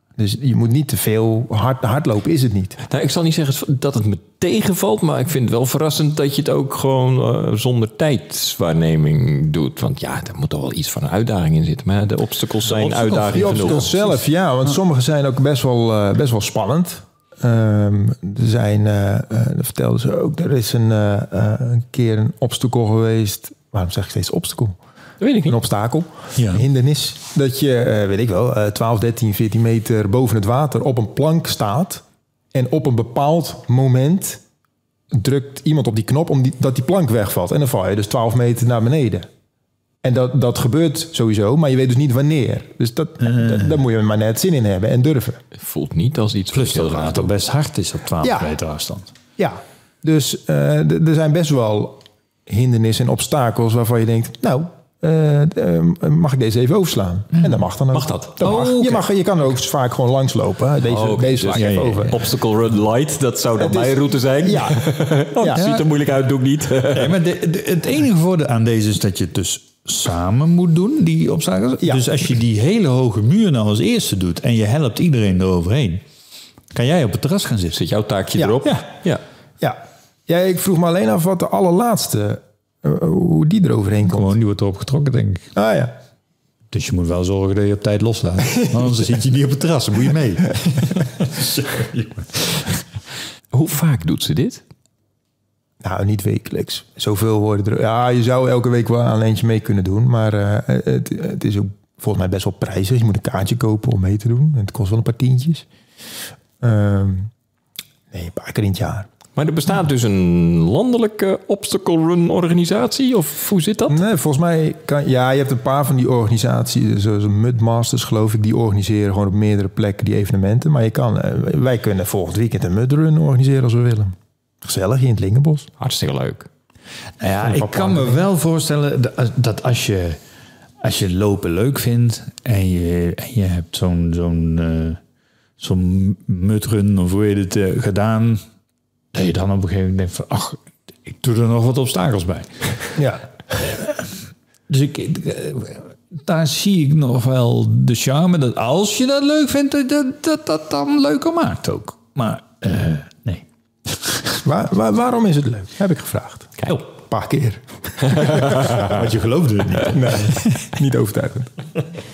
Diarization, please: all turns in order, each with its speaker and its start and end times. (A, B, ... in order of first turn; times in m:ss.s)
0:00.2-0:02.8 A
0:02.9-0:13.9 B
0:12.6-0:14.7 C
0:13.3-0:24.8 A
0:25.2-0:25.6 B
0:25.4-0:32.0 A
0:26.4-0:26.6 C
0:32.5-0:34.4 A
0:35.1-0:39.2 A
0:40.0-0:45.4 A
0:43.2-0:43.7 C
0:45.6-0:47.3 B
0:46.5-0:49.1 C
0:48.2-0:48.5 A
0:49.4-1:02.1 A
0:57.9-0:58.4 B
0:58.4-0:59.0 C
1:00.8-1:07.2 B
1:01.5-1:02.2 C
1:03.6-1:04.8 A
1:05.4-1:05.6 A
1:05.5-1:05.8 C
1:06.9-1:16.0 C
1:11.8-1:12.1 A
1:16.7-1:17.8 C
1:17.7-1:19.2 B
1:18.4-1:18.7 A
1:19.6-1:24.4 A
1:24.0-1:25.5 C
1:25.6-1:25.9 A
1:26.7-1:32.6 C
1:33.5-1:34.6 B
1:35.8-1:45.6 A
1:46.6-1:47.3 A
1:48.1-1:49.1 A
1:49.4-1:54.0 B
1:53.9-2:05.7 A
2:05.8-2:06.5 B
2:07.2-2:10.2 C
2:07.4-2:08.2 A
2:10.8-2:15.0 C
2:15.6-2:18.4 C
2:19.1-2:20.6 C
2:21.1-2:22.5 C
2:23.0-2:23.2 A
2:24.7-2:34.4 C
2:34.4-2:38.4 A
2:38.4-2:40.6 C
2:39.9-2:41.5 A